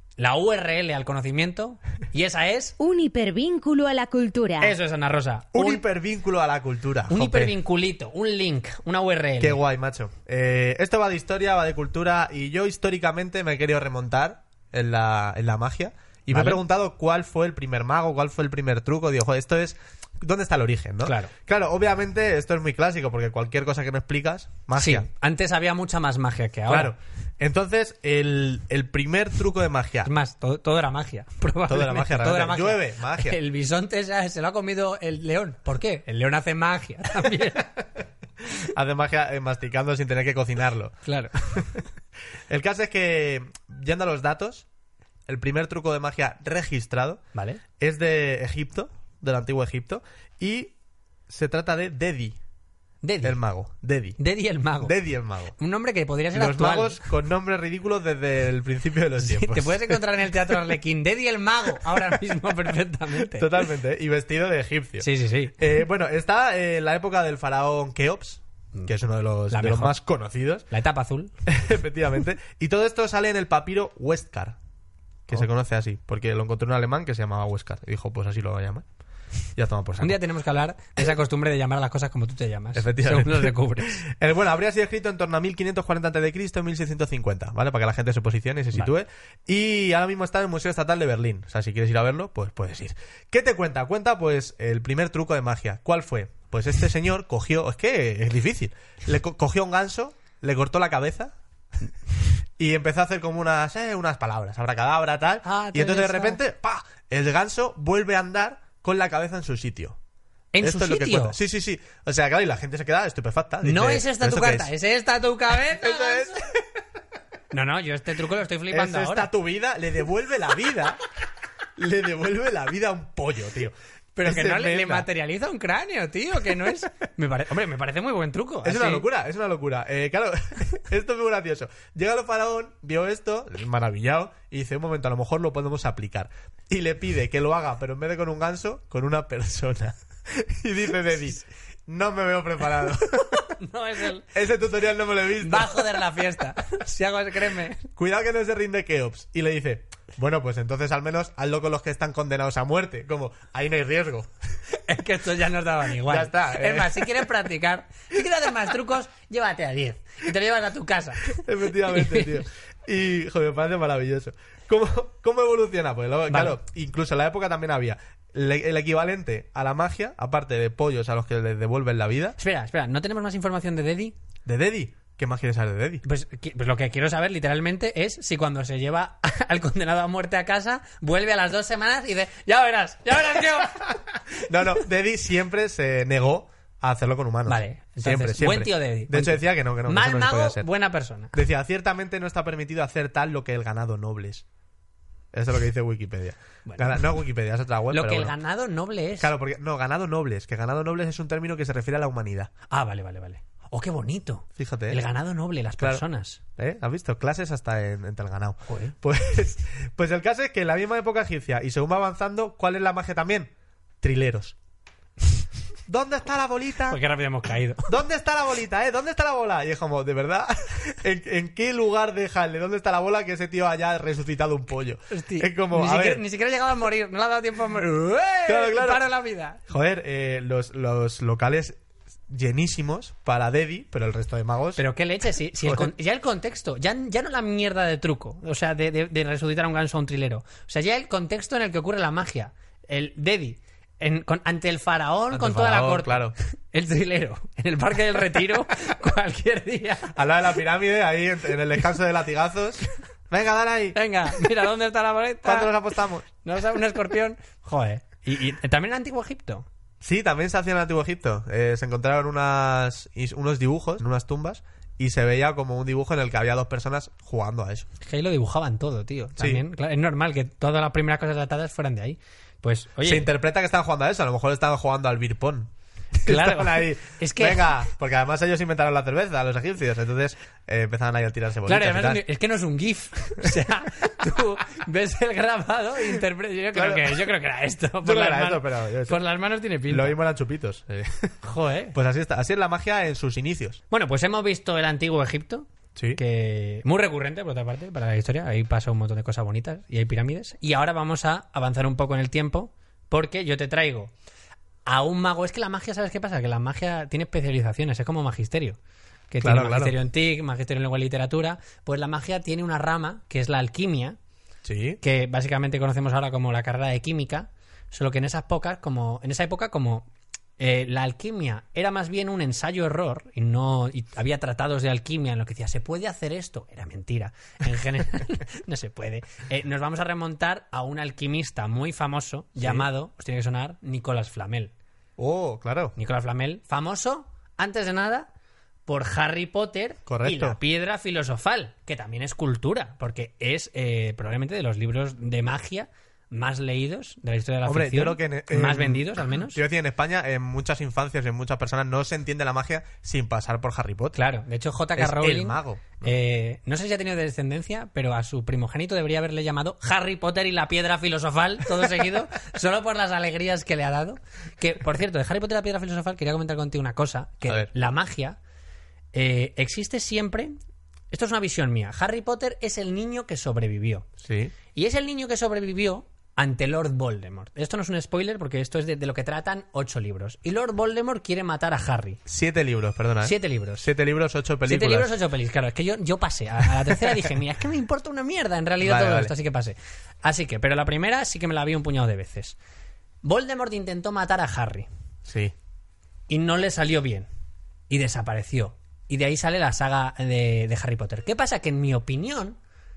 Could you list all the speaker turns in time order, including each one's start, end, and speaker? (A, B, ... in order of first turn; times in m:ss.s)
0:00.2-0:02.8 A
0:02.8-0:04.8 B
0:04.6-0:05.8 A
0:05.5-0:07.6 C
0:07.1-0:09.6 A
0:09.4-0:25.1 C
0:16.3-0:16.6 A
0:21.0-0:21.3 A
0:24.8-0:26.9 A
0:26.7-0:30.1 C
0:30.0-0:37.8 A
0:31.7-0:33.4 C
0:38.6-0:41.0 C
0:41.0-0:41.3 A
0:41.5-0:41.8 C
0:42.5-0:44.7 C
0:45.3-0:47.2 C
0:47.3-0:47.6 A
0:47.8-0:50.7 C
0:51.3-0:52.4 C
0:53.0-0:53.4 A
0:53.2-0:54.2 C
0:54.2-0:55.0 A
0:54.8-0:55.5 C
0:55.6-0:57.1 A
0:56.3-1:00.0 C
0:59.2-1:03.5 A
1:03.2-1:05.1 C
1:05.0-1:05.6 A
1:05.6-1:10.7 C
1:09.5-1:10.0 A
1:10.7-1:11.3 A
1:11.5-1:14.6 C
1:15.3-1:18.8 C
1:19.6-1:20.2 C
1:20.0-1:24.0 A
1:22.8-1:41.4 C
1:42.6-1:50.0 C
1:45.4-1:46.4 A
1:50.5-1:51.4 A
1:50.6-1:54.7 C
1:53.6-1:56.4 A
1:55.7-1:56.6 C
1:57.5-1:59.3 A
1:58.7-2:01.0 C
2:01.8-2:05.1 C
2:04.2-2:09.0 A
2:08.6-2:23.5 C
2:23.5-2:24.3 A
2:24.3-2:26.0 C
2:25.4-2:27.9 A
2:27.9-2:34.3 C
2:34.7-2:42.4 A
2:36.0-2:37.2 C
2:41.3-2:52.4 C
2:46.3-2:46.6 A
2:52.4-2:54.2 A
2:54.4-2:56.0 C
2:56.0-3:04.0 A
3:04.4-3:10.7 C
3:07.5-3:11.4 A
3:11.3-3:14.4 C
3:15.3-3:18.3 C
3:16.7-3:17.0 A
3:17.9-3:19.3 A
3:19.2-3:22.5 C
3:22.7-3:26.4 A
3:24.6-3:25.0 C
3:25.8-3:26.0 C
3:26.6-3:33.5 C
3:28.7-3:29.0 A
3:34.0-3:34.6 C
3:35.9-3:37.0 C
3:36.9-3:37.9 A
3:37.9-3:46.2 C
3:45.1-3:49.6 A
3:48.5-3:49.1 C
3:49.7-3:51.8 C
3:52.3-3:54.8 C
3:54.8-4:10.1 A
3:55.6-3:55.9 C
4:05.3-4:06.4 C
4:10.1-4:14.0 C
4:14.0-4:15.8 A
4:15.4-4:16.3 C
4:16.4-4:19.7 A
4:20.0-4:27.9 C
4:28.0-4:33.3 A
4:29.4-4:29.6 C
4:33.0-4:42.2 C
4:36.2-4:37.9 A
4:41.7-4:50.2 A
4:46.8-4:47.3 C
4:48.0-4:49.2 C
4:49.9-4:51.4 C
4:51.4-4:52.0 A
4:51.9-4:53.8 C
4:53.9-5:04.1 A
4:56.0-4:56.2 C
5:04.9-5:08.8 A
5:09.3-5:14.2 A
5:09.4-5:09.9 C
5:14.6-5:15.0 C
5:15.0-5:34.7 A
5:32.6-5:32.9 C
5:35.2-5:35.9 C
5:36.0-5:38.3 A
5:38.9-5:49.6 A
5:40.1-5:40.6 C
5:47.7-5:54.2 C
5:54.2-6:08.4 A
5:55.0-5:56.1 C
6:09.1-6:10.6 A
6:11.1-6:14.1 A
6:14.2-6:14.6 C
6:14.7-6:22.2 A
6:22.3-6:25.1 C
6:23.2-6:23.9 A
6:24.7-6:32.6 A
6:28.8-6:29.3 C
6:33.2-6:34.9 A
6:35.3-6:35.5 C
6:36.3-6:37.3 A
6:37.9-6:42.6 A